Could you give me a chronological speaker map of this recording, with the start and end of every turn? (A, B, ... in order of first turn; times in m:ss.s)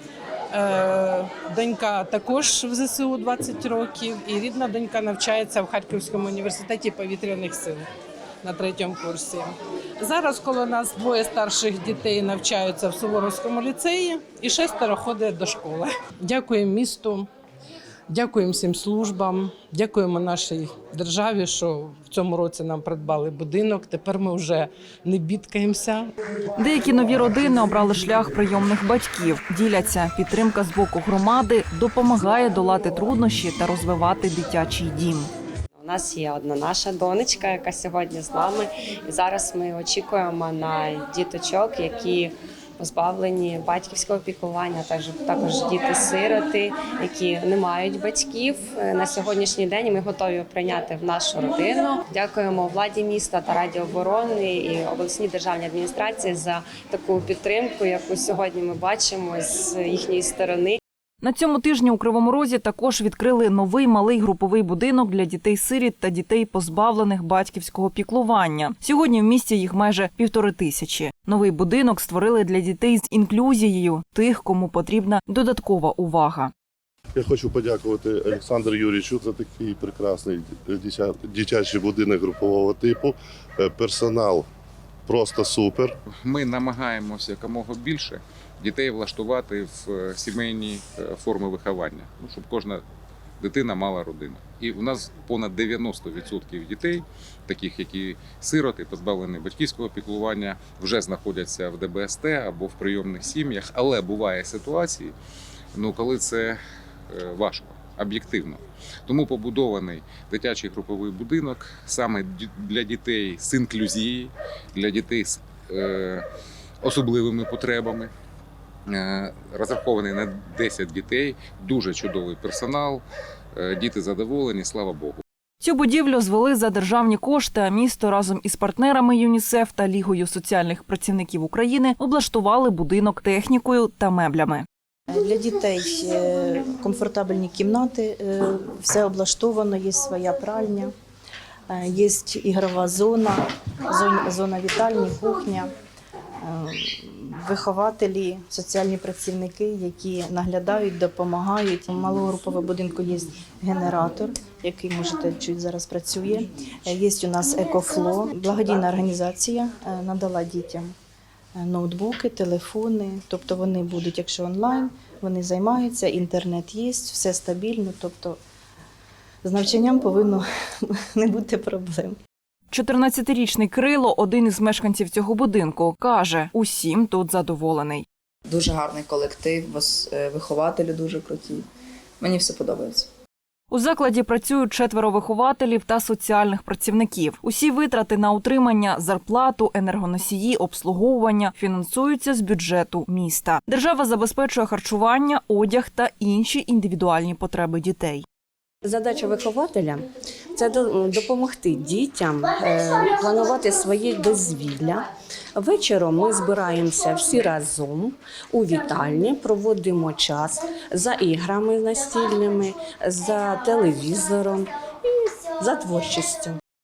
0:00.5-0:07.9 A
0:08.4-0:17.3 A
0:18.1-0:26.1 A
0:26.6-0:35.3 B
0:35.8-1:00.8 C
1:01.2-1:16.5 B
1:17.2-1:24.5 D
1:25.1-1:26.0 D
1:26.2-1:32.8 E
1:33.4-1:45.1 E
1:45.8-1:46.6 E
1:47.1-1:56.2 E
1:56.8-1:58.1 E
1:58.9-2:03.0 E
2:03.6-2:05.2 E
2:05.6-2:14.7 B
2:15.1-2:20.9 F
2:21.7-2:23.4 F
2:23.9-2:25.7 F
2:26.4-2:40.9 F
2:41.6-2:48.4 F
2:49.4-2:50.4 F
2:51.0-2:52.2 F
2:52.7-2:58.1 B
2:58.5-3:01.7 G
3:02.2-3:03.1 G
3:03.7-3:18.2 B
3:18.8-3:34.7 H
3:35.5-3:36.6 H